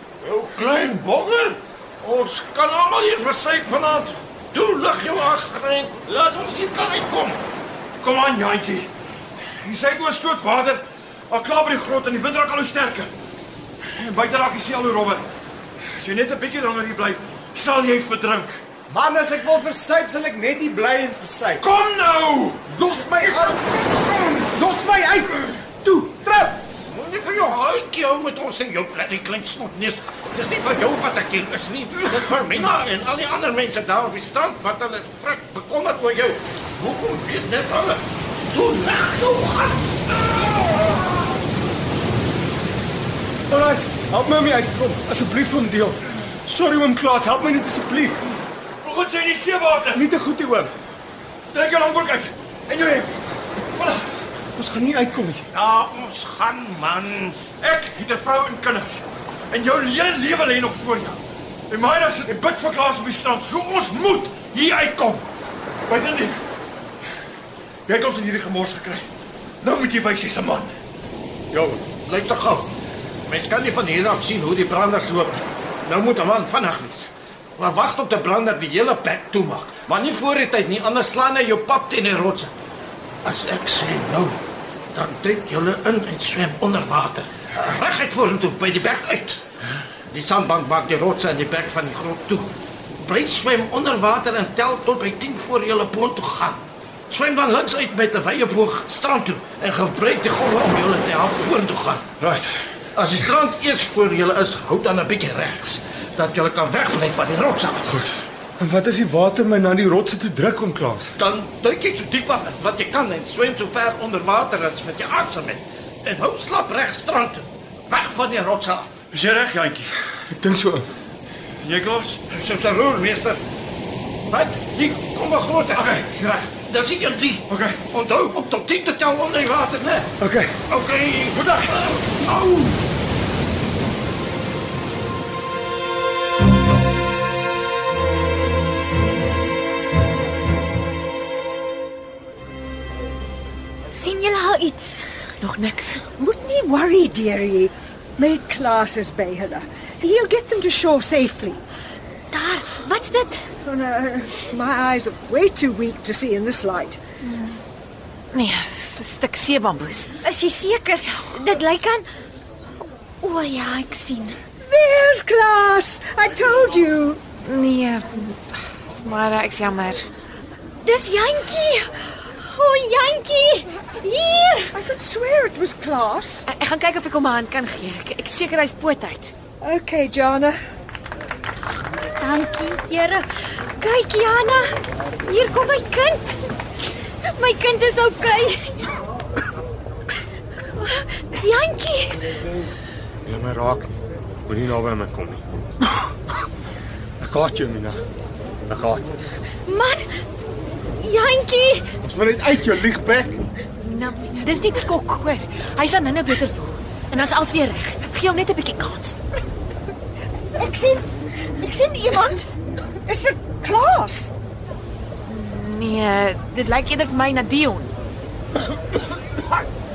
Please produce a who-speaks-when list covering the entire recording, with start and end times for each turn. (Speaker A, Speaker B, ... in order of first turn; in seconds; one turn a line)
Speaker A: 0.2-7.4
Speaker B: 0.7-1.5
Speaker B: 8.0-8.9
Speaker B: 9.6-13.1
Speaker B: 13.9-15.3
Speaker B: 16.0-18.6
Speaker C: 18.9-21.6
Speaker B: 21.6-22.6
Speaker C: 22.7-26.6
Speaker A: 26.9-41.1
Speaker C: 43.5-48.2
Speaker B: 48.8-50.0
Speaker C: 49.9-50.7
Speaker B: 51.5-53.1
Speaker B: 53.8-54.1
Speaker C: 54.5-55.4
Speaker A: 55.5-57.4
Speaker B: 57.6-65.2
Speaker B: 65.9-66.4
Speaker B: 67.9-69.1
Speaker B: 69.6-70.7
Speaker A: 71.5-72.7
Speaker A: 73.3-82.5
Speaker A: 83.2-84.4
Speaker A: 84.9-89.4
Speaker A: 90.1-102.0
Speaker C: 102.2-102.5
Speaker A: 102.9-108.0
Speaker C: 107.9-111.1
Speaker A: 111.2-118.9
Speaker B: 119.1-120.1
Speaker C: 120.3-120.9
Speaker B: 121.6-122.2
Speaker A: 122.3-123.4
Speaker A: 124.3-126.0
Speaker B: 125.8-126.5
Speaker A: 126.6-130.1
Speaker C: 130.2-130.6
Speaker A: 130.7-132.8
Speaker D: 143.9-145.0
Speaker E: 145.4-146.0
Speaker F: 146.2-151.6
Speaker D: 152.3-153.5
Speaker F: 153.6-157.0
Speaker E: 158.3-160.1
Speaker D: 160.2-162.1
Speaker D: 163.2-164.4
Speaker F: 164.6-167.2
Speaker E: 167.4-168.4
Speaker E: 168.9-170.0
Speaker D: 170.8-174.7
Speaker F: 174.7-176.5
Speaker E: 176.5-179.3
Speaker F: 179.6-180.6
Speaker D: 182.2-186.4
Speaker D: 187.2-188.9
Speaker D: 190.8-192.3
Speaker C: 193.2-195.4
Speaker C: 197.2-198.0
Speaker C: 198.7-199.1
Speaker D: 199.7-200.2
Speaker D: 201.0-201.9
Speaker C: 202.0-203.4
Speaker E: 203.8-209.2
Speaker F: 210.6-212.5
Speaker F: 213.1-214.3
Speaker E: 215.3-217.9